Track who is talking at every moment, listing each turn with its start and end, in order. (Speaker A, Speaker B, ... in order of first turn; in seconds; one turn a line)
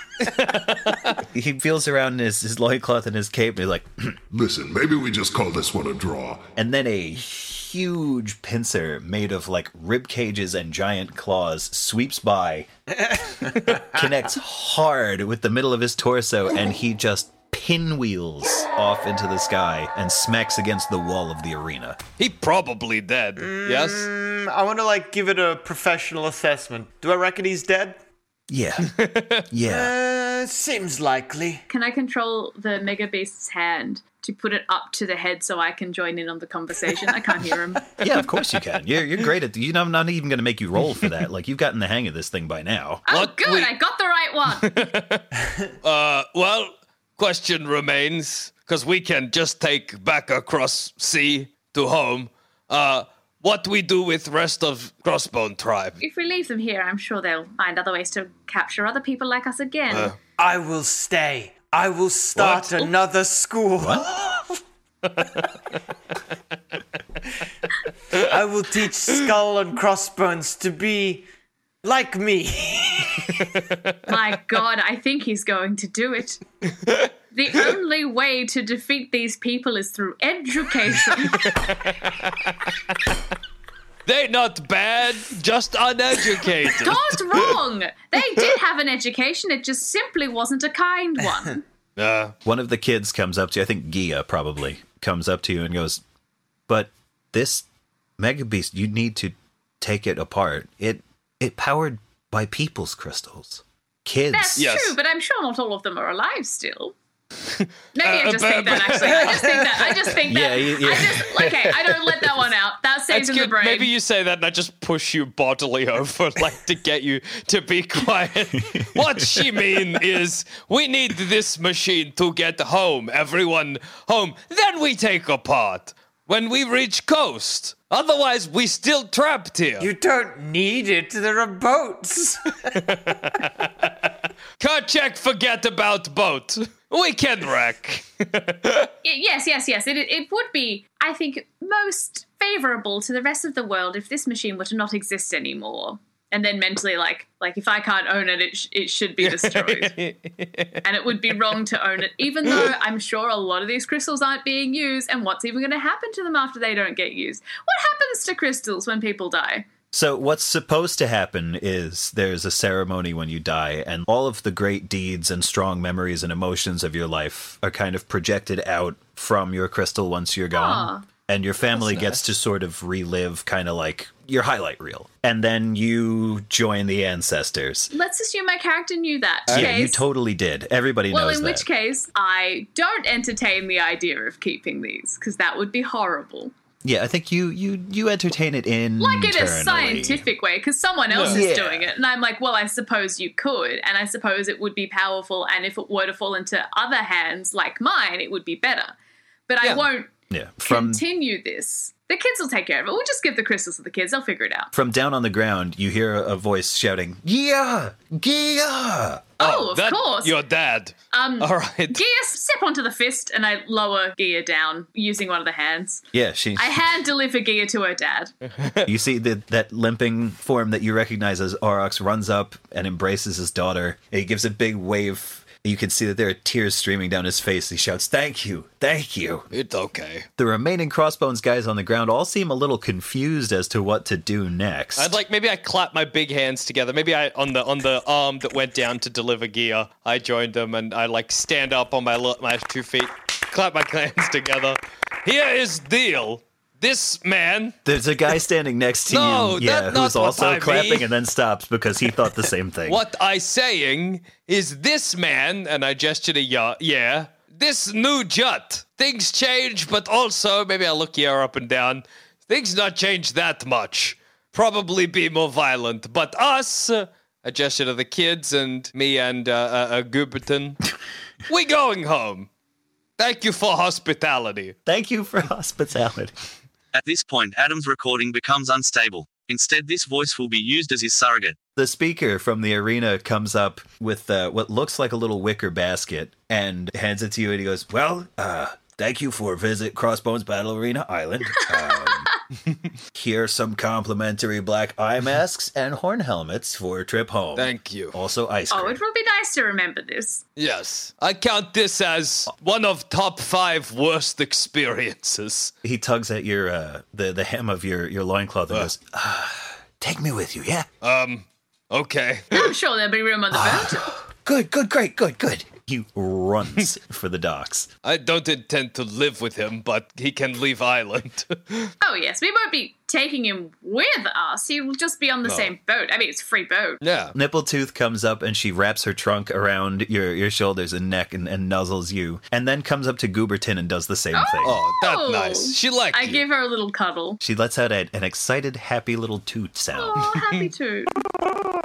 Speaker A: 0.4-1.1
Speaker B: 1.3-4.2
Speaker C: 4.3-6.5
Speaker B: 6.6-12.7
Speaker D: 13.0-13.8
Speaker B: 13.6-22.0
Speaker A: 22.2-24.1
Speaker D: 23.4-28.0
Speaker B: 28.5-28.9
Speaker A: 28.9-29.4
Speaker B: 29.5-29.9
Speaker D: 29.7-31.6
Speaker E: 31.7-37.9
Speaker B: 38.0-43.0
Speaker E: 43.1-44.7
Speaker A: 43.1-43.7
Speaker A: 44.6-45.3
Speaker A: 45.8-56.0
Speaker E: 56.0-60.1
Speaker A: 59.9-60.2
Speaker D: 60.4-64.6
Speaker A: 62.4-62.7
Speaker B: 63.8-64.1
Speaker D: 68.2-71.3
Speaker D: 71.8-73.5
Speaker E: 74.1-76.4
Speaker E: 77.3-81.5
Speaker A: 81.4-82.3
Speaker A: 84.1-87.5
Speaker E: 86.8-91.6
Speaker A: 92.0-92.3
Speaker B: 92.5-96.0
Speaker B: 96.7-97.7
Speaker B: 98.2-104.7
Speaker E: 104.3-107.0
Speaker A: 104.6-105.0
Speaker A: 107.5-110.0
Speaker E: 108.0-113.9
Speaker B: 110.2-112.2
Speaker A: 113.1-129.9
Speaker D: 129.8-132.8
Speaker A: 132.7-133.9
Speaker A: 134.6-138.9
Speaker E: 139.0-149.9
Speaker A: 149.2-150.8
Speaker E: 150.8-159.7
Speaker B: 159.9-177.9
Speaker E: 170.5-171.0
Speaker A: 171.8-172.2
Speaker E: 177.9-180.0
Speaker A: 179.5-179.8
Speaker B: 179.5-181.7
Speaker E: 181.1-186.5
Speaker B: 186.8-190.2
Speaker E: 189.0-198.9
Speaker A: 191.1-191.4
Speaker B: 191.2-191.9
Speaker E: 199.5-200.1
Speaker B: 200.3-201.0
Speaker E: 200.7-204.7
Speaker B: 204.7-209.3
Speaker E: 209.4-210.3
Speaker A: 209.4-212.0
Speaker E: 211.1-216.0
Speaker B: 216.1-216.9
Speaker E: 216.6-218.3
Speaker A: 218.6-218.9
Speaker B: 218.9-229.5
Speaker A: 229.5-230.3
Speaker B: 230.4-235.2
Speaker A: 235.0-247.8
Speaker B: 247.8-253.0
Speaker A: 249.1-251.1
Speaker A: 252.8-270.8
Speaker A: 271.5-272.5
Speaker A: 273.2-274.8
Speaker B: 274.9-276.3
Speaker F: 276.9-281.6
Speaker B: 281.8-292.3
Speaker B: 293.1-299.0
Speaker A: 297.6-298.2
Speaker E: 298.7-300.4
Speaker A: 300.6-305.7
Speaker B: 305.8-310.9
Speaker A: 311.0-312.7
Speaker E: 312.5-314.1
Speaker B: 313.5-317.9
Speaker A: 318.0-321.9
Speaker E: 322.0-327.0
Speaker A: 325.4-325.7
Speaker A: 327.0-327.4
Speaker B: 327.4-334.8
Speaker E: 334.3-337.4
Speaker A: 334.6-336.4
Speaker B: 337.4-340.4
Speaker E: 339.9-341.1